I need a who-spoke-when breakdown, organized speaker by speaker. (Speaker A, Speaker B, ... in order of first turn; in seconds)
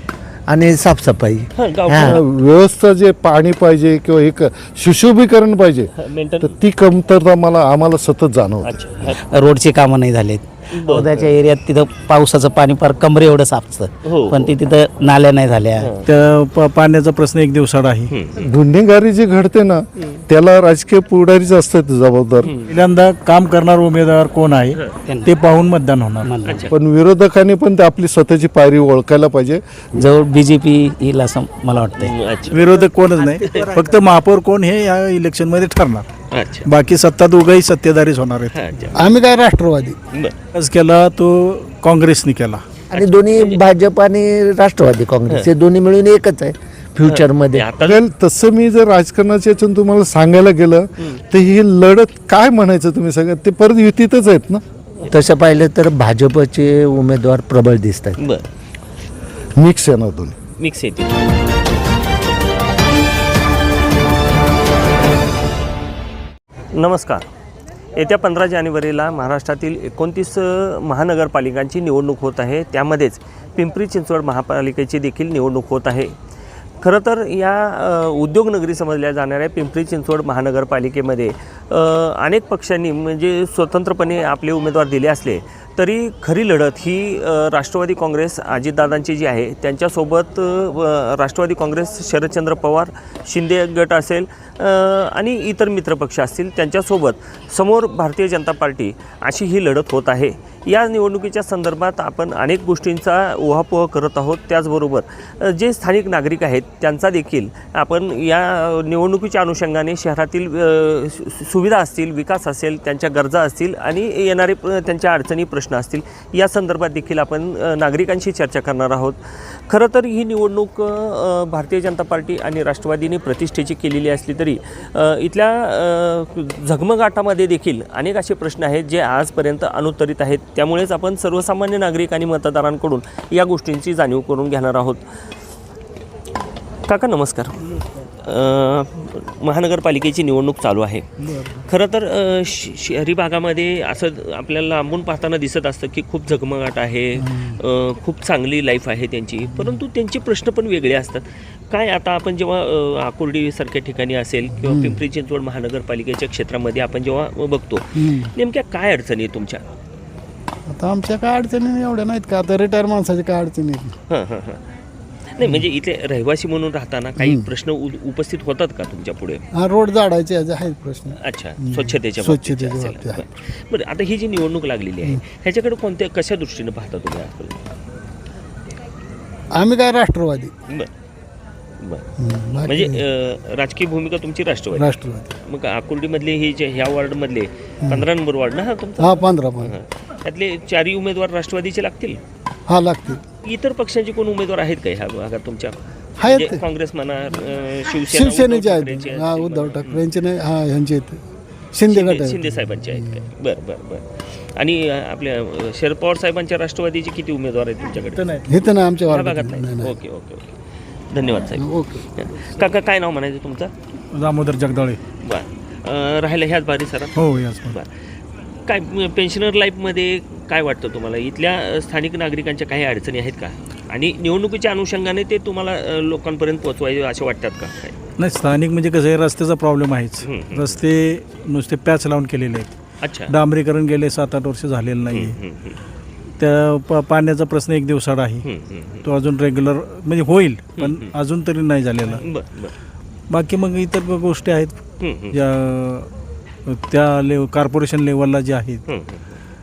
Speaker A: 0.5-2.2, 42.9-47.7, 55.1-58.2
Speaker B: 1.6-2.2, 6.0-6.5, 8.6-9.2, 10.7-11.4, 14.1-14.6, 15.8-16.1, 18.1-18.5, 22.4-22.8, 26.4-26.8, 32.0-32.7, 33.4-33.7, 36.3-36.7, 38.5-39.1, 42.9-43.6, 47.1-48.0, 58.2-58.5, 60.6-61.2, 66.7-67.2, 68.0-76.2, 76.8-135.3, 136.9-159.6, 164.1-164.6, 165.4-169.4, 171.2-177.6, 182.6-184.9, 185.5-192.2, 193.4-200.1, 201.9-208.4, 209.0-210.5, 211.1-213.7, 215.2-217.9, 218.7-228.0, 230.2-230.8, 233.0-233.3, 235.1-235.8, 238.4-239.1, 240.8-241.1, 242.2-242.8, 245.0-245.4, 248.9-249.2
Speaker C: 2.0-8.8, 18.4-22.5, 26.7-29.6, 47.8-54.6, 59.6-60.4
Speaker D: 9.1-15.9, 25.1-25.3, 26.2-26.7, 29.9-32.1
Speaker E: 16.1-18.1, 22.7-26.3, 32.5-36.1, 36.6-38.6, 40.5-42.6, 214.1-215.0, 217.2-217.8, 228.2-235.4, 236.4-238.4, 239.0-242.2, 243.3-246.1, 246.7-248.8
Speaker F: 33.1-33.9, 39.0-40.0, 154.7-155.0, 158.0-158.3, 160.7-163.9, 167.2-167.5, 169.5-173.2, 179.5-180.5, 182.2-182.9, 184.7-185.3, 189.0-189.7, 192.7-193.2, 196.2-196.6, 198.1-203.2, 208.4-209.9, 211.6-212.0